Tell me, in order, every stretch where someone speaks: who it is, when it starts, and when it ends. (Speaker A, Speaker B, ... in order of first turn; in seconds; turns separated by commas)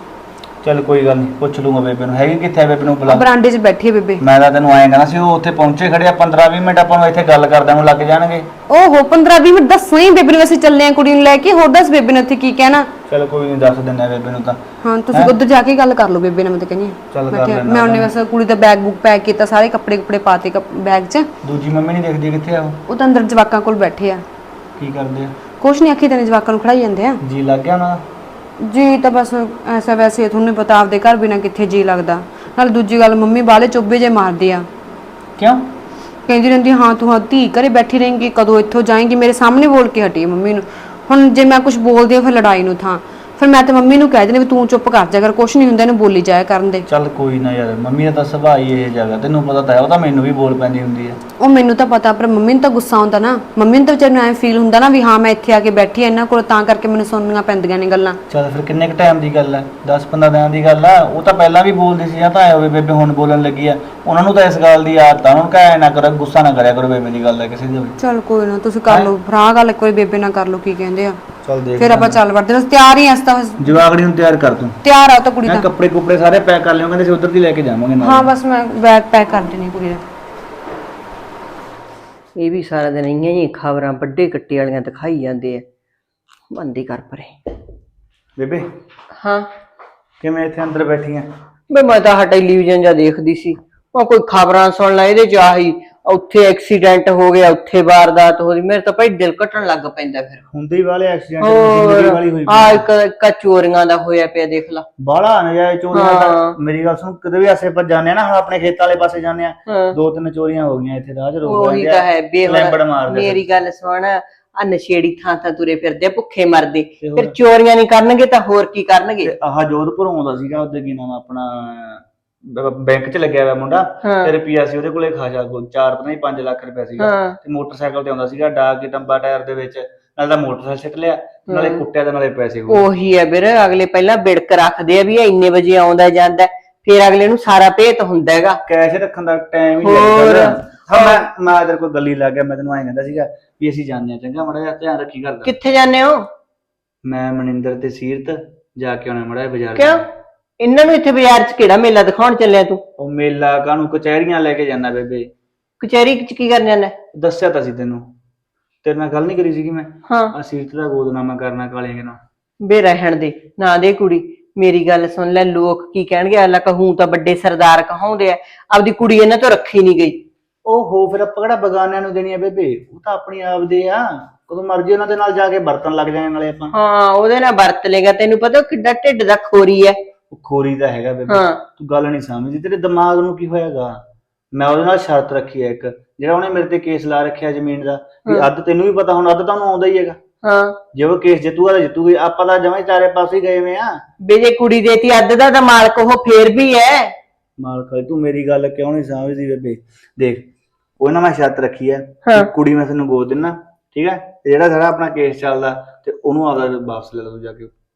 Speaker A: 0.6-3.2, Speaker B: 3.1-4.2, Speaker A: 4.2-8.5, Speaker B: 8.7-12.9, Speaker A: 13.1-14.6, Speaker B: 14.8-21.3, Speaker A: 17.1-18.1, Speaker A: 21.4-22.8, Speaker B: 22.9-24.2, Speaker A: 24.8-25.3, Speaker B: 25.6-27.2, Speaker A: 27.2-28.0, Speaker B: 28.6-34.7, Speaker A: 35.4-35.7, Speaker B: 36.3-46.9, Speaker A: 46.9-51.2, Speaker B: 51.4-58.2, Speaker A: 58.3-68.0, Speaker B: 68.0-71.2, Speaker A: 71.4-72.2, Speaker B: 71.8-73.8, Speaker A: 73.6-74.8, Speaker B: 74.8-75.7, Speaker A: 75.4-78.3, Speaker B: 78.0-80.0, Speaker C: 82.4-85.6, Speaker C: 86.5-87.3, Speaker A: 88.4-88.7, Speaker C: 89.1-89.5, Speaker A: 90.2-91.3, Speaker C: 91.7-100.4, Speaker A: 100.5-102.9, Speaker C: 101.4-104.8, Speaker A: 105.0-113.4, Speaker C: 105.9-106.5, Speaker C: 109.7-110.0, Speaker C: 111.5-119.3, Speaker A: 117.0-117.3, Speaker A: 119.2-132.9, Speaker C: 124.0-124.3, Speaker C: 127.0-127.4, Speaker C: 131.5-131.8, Speaker C: 132.7-138.6, Speaker A: 138.7-145.5, Speaker C: 139.8-141.2, Speaker C: 145.4-146.3, Speaker A: 147.0-150.1, Speaker C: 149.8-150.0, Speaker C: 150.6-152.8, Speaker A: 153.0-155.3, Speaker C: 155.8-156.9, Speaker A: 157.1-158.1, Speaker A: 158.8-162.2, Speaker C: 162.6-170.2, Speaker A: 170.7-176.7, Speaker C: 176.7-180.0, Speaker A: 180.3-184.0, Speaker C: 181.3-181.6, Speaker A: 184.5-190.2, Speaker C: 190.4-190.8, Speaker A: 190.9-194.0, Speaker C: 194.2-197.1, Speaker A: 197.6-200.5, Speaker A: 201.0-207.7